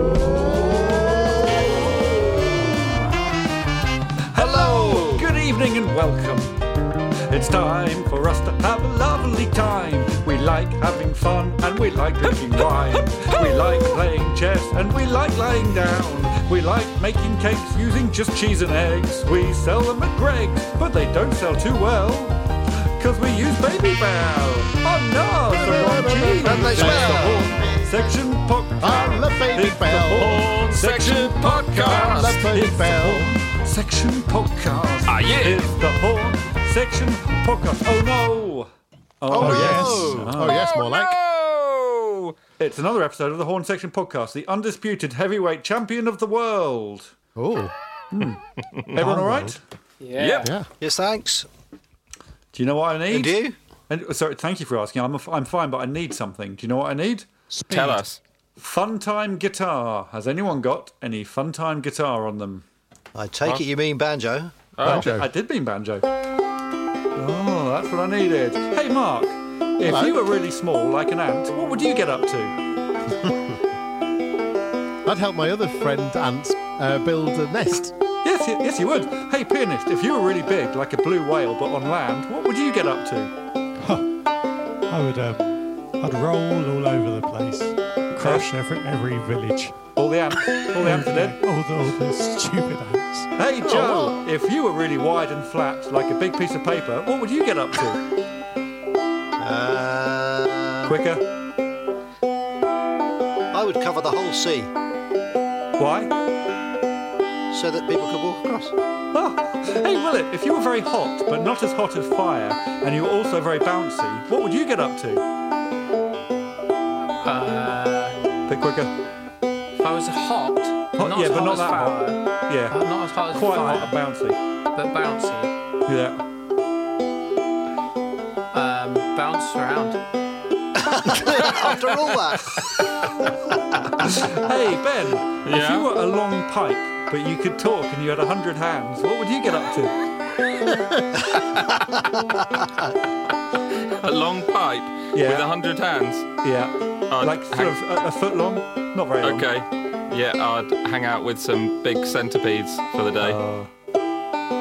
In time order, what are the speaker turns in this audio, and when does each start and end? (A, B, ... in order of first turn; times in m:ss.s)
0:04.3-0:06.6 A
0:07.3-0:22.4 A
0:23.0-0:40.7 A
0:25.5-0:27.7 B
0:26.4-0:27.4 C
0:28.8-0:30.4 B
0:30.1-0:32.4 C
0:32.1-0:33.3 B
0:35.1-0:35.7 C
0:39.3-0:41.1 B
0:39.5-0:40.3 D
0:40.4-0:42.4 C
0:42.6-0:47.1 A
0:47.4-0:47.7 B
0:48.1-0:48.4 A
0:48.9-0:49.6 A
0:49.0-0:49.6 B
0:50.0-0:50.5 E
0:50.2-0:50.5 C
0:50.8-0:51.5 F
0:52.5-0:57.3 A
0:53.1-0:53.6 F
0:57.5-0:58.0 D
0:57.7-0:58.2 C
0:58.6-1:02.6 A
1:03.2-1:04.6 F
1:04.8-1:05.1 C
1:04.8-1:05.3 B
1:04.8-1:06.1 A
1:07.2-1:12.6 A
1:09.8-1:10.1 B
1:15.1-1:17.9 B
1:18.2-1:23.3 A
1:23.8-1:24.1 D
1:24.9-1:29.8 D
1:28.2-1:28.5 A
1:30.0-1:31.4 A
1:30.7-1:33.3 D
1:33.4-1:38.0 A
1:33.7-1:34.0 B
1:39.4-1:40.9 F
1:40.8-1:41.2 A
1:43.5-1:44.7 F
1:45.8-1:46.1 A
1:47.5-1:48.7 F
1:49.1-1:55.2 A
1:57.2-1:58.2 E
1:58.5-1:58.9 A
1:59.8-2:03.9 E
2:01.0-2:04.4 A
2:04.7-2:05.5 E
2:05.8-2:06.2 A
2:08.5-2:10.0 E
2:10.9-2:13.1 F
2:14.0-2:19.9 A
2:15.4-2:15.9 C
2:23.9-2:26.3 C
2:25.1-2:25.4 A
2:26.4-2:29.5 A
2:27.1-2:27.8 C
2:29.2-2:33.4 C
2:33.2-2:33.7 A